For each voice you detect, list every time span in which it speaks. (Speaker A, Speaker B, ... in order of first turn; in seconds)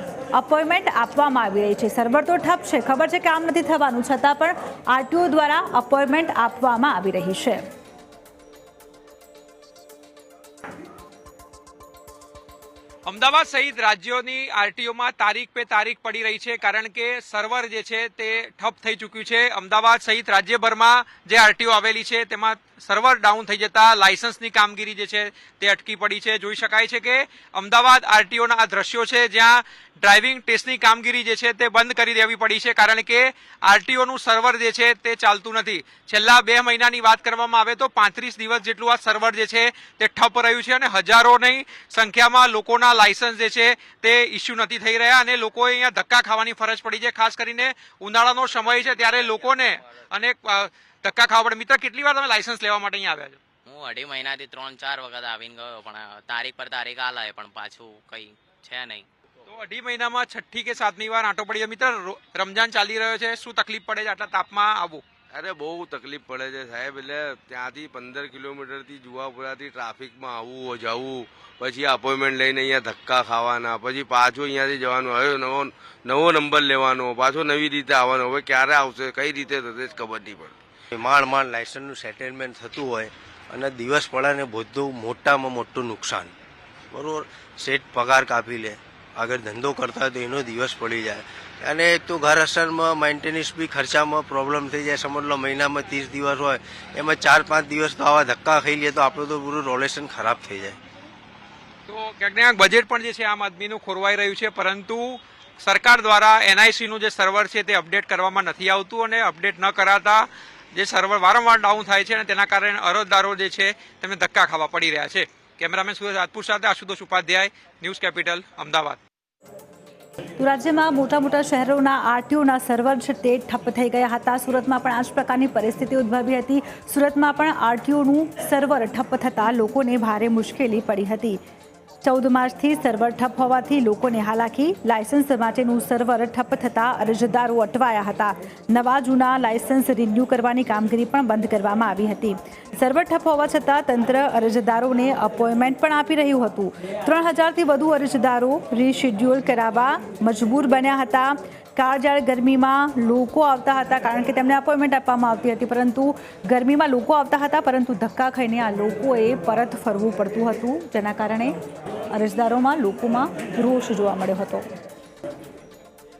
Speaker A: 0.3-7.6, 120.4-131.4, 132.0-161.5, 162.1-164.6
Speaker B: 13.1-53.4, 59.5-65.0, 101.9-119.0
Speaker C: 53.7-59.0
Speaker D: 65.3-80.5
Speaker E: 80.9-86.3, 86.9-100.8